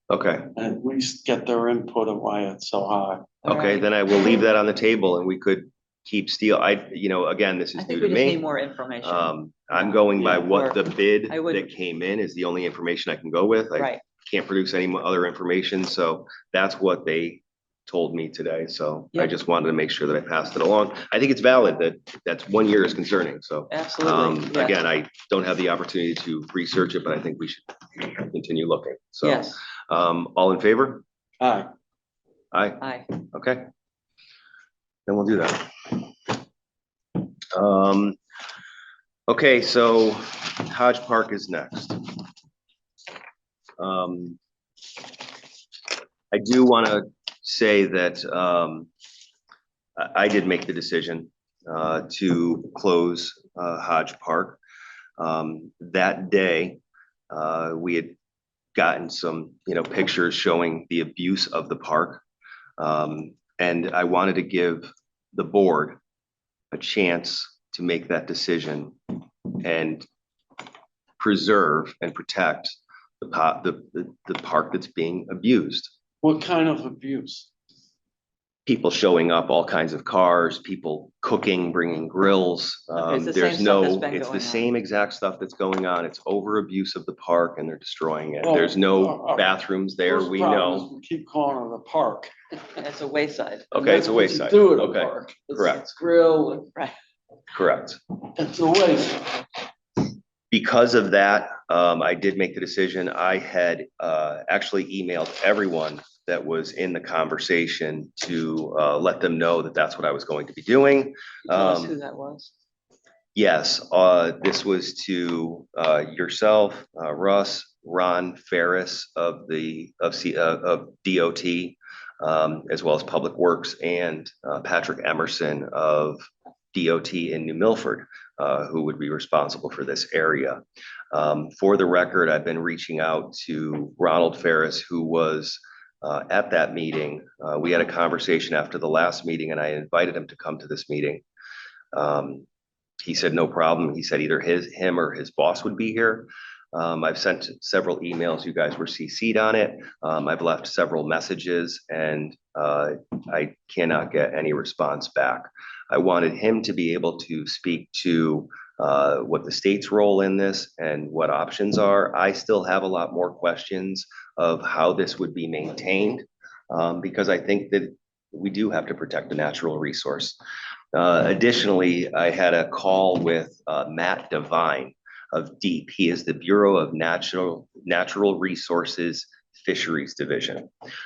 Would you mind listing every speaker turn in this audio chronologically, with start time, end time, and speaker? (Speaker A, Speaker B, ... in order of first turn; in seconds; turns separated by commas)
Speaker A: 0.1-0.5, Speaker B: 0.6-3.3, Speaker C: 3.4-3.9, Speaker A: 3.4-8.4, Speaker C: 7.8-11.7, Speaker A: 9.0-31.0, Speaker C: 13.7-14.0, Speaker C: 23.7-24.8, Speaker C: 29.2-29.6, Speaker B: 31.4-31.7, Speaker A: 32.5-33.7, Speaker C: 32.8-33.1, Speaker A: 35.1-36.1, Speaker A: 37.5-38.2, Speaker A: 39.3-42.1, Speaker A: 43.8-44.4, Speaker A: 46.3-48.9, Speaker A: 50.0-54.6, Speaker A: 55.2-56.8, Speaker A: 57.3-58.1, Speaker A: 58.7-62.2, Speaker A: 62.8-66.0, Speaker A: 66.7-69.0, Speaker A: 69.5-70.0, Speaker A: 71.2-75.9, Speaker B: 76.2-77.5, Speaker A: 78.7-90.9, Speaker C: 83.0-84.7, Speaker B: 88.4-92.8, Speaker C: 92.8-93.8, Speaker A: 93.7-95.8, Speaker B: 93.7-96.7, Speaker A: 97.5-98.0, Speaker B: 98.3-99.4, Speaker A: 100.5-111.9, Speaker C: 111.5-112.5, Speaker A: 113.3-130.6, Speaker A: 131.1-141.2, Speaker A: 141.9-142.4, Speaker A: 143.0-170.4, Speaker A: 170.9-180.7